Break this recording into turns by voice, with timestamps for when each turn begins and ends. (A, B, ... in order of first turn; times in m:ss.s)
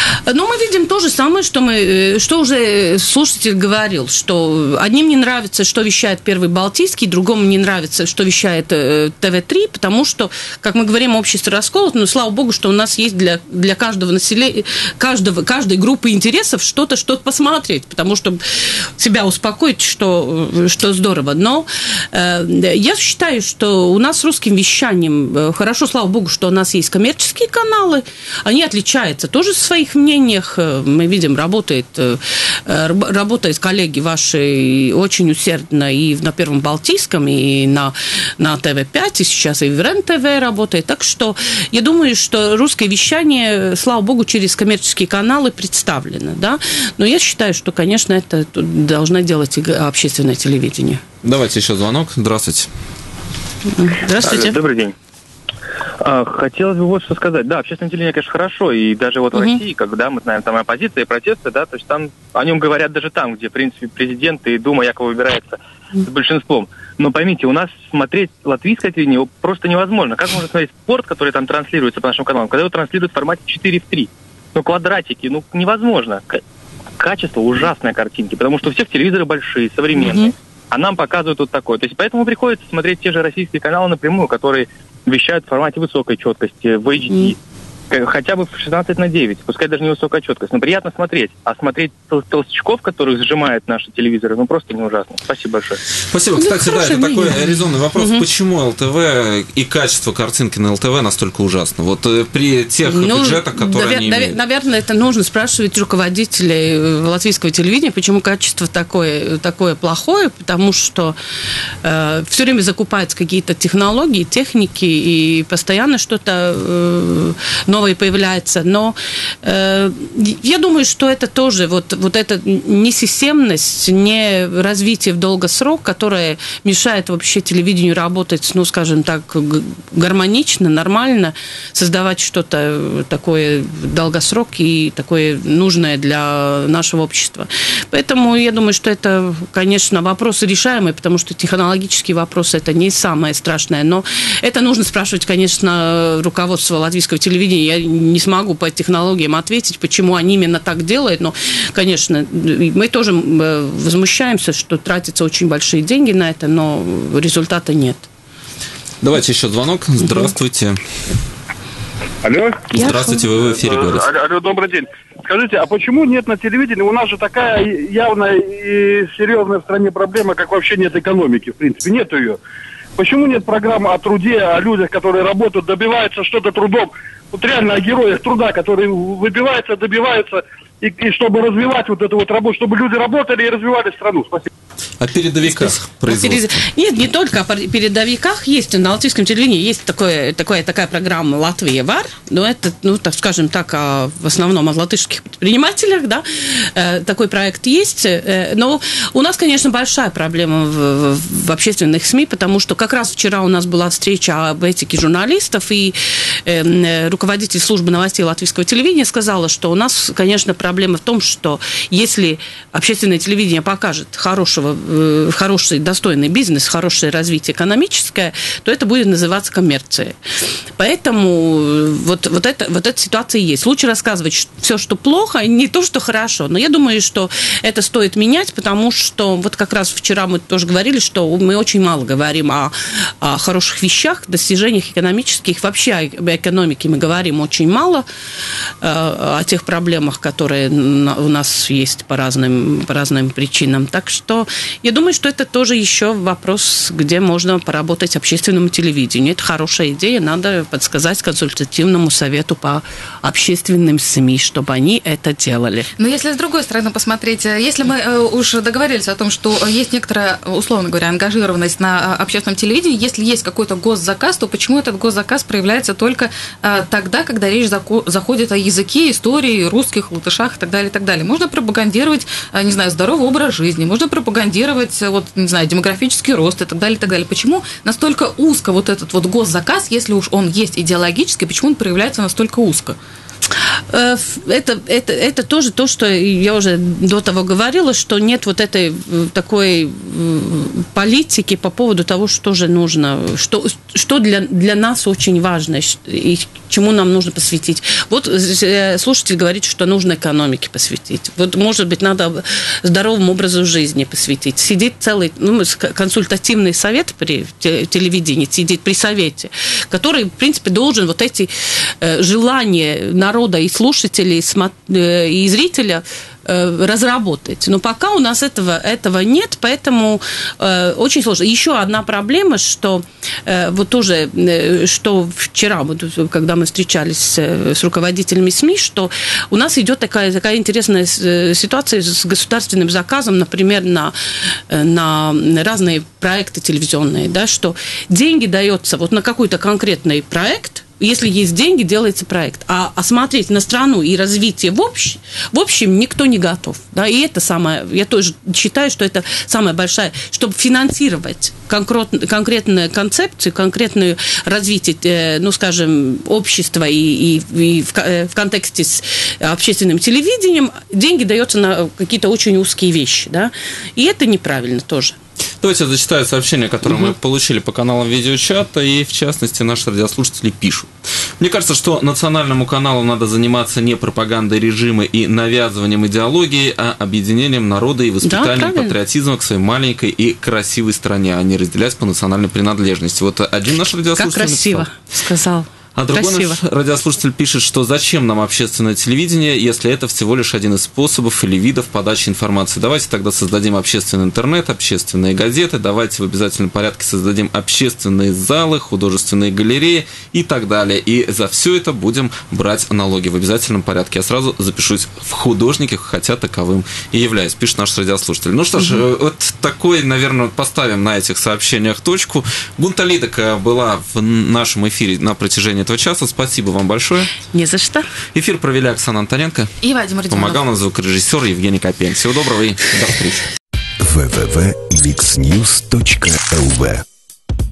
0:00.3-0:18.4 A
0:19.0-0:51.0 A
0:51.2-0:52.7 B
0:53.7-0:54.6 A
0:54.2-0:54.9 C
0:56.0-1:16.4 C
0:59.4-0:59.6 A
1:17.0-1:27.4 C
1:20.0-1:20.3 A
1:27.9-1:35.8 C
1:36.1-1:44.4 B
1:36.4-1:38.2 A
1:42.9-1:51.2 A
1:51.8-2:38.1 A
2:39.0-2:40.8 B
2:42.2-2:42.8 D
2:42.7-2:43.2 A
2:42.8-2:44.1 B
2:43.5-2:52.4 D
2:53.0-3:04.5 D
3:05.0-3:06.6 B
3:05.4-3:40.1 A
3:40.8-3:58.1 A
3:58.8-4:15.9 A
4:16.0-4:43.0 E
4:43.9-5:34.2 A
5:34.7-6:05.2 A
6:05.6-6:24.9 B
6:18.2-6:18.9 A
6:24.2-6:26.6 A
6:26.0-6:57.3 B
6:57.5-6:58.1 A
6:58.3-6:59.8 B
6:59.8-7:00.6 E
7:00.3-7:03.4 B
7:04.0-7:07.0 F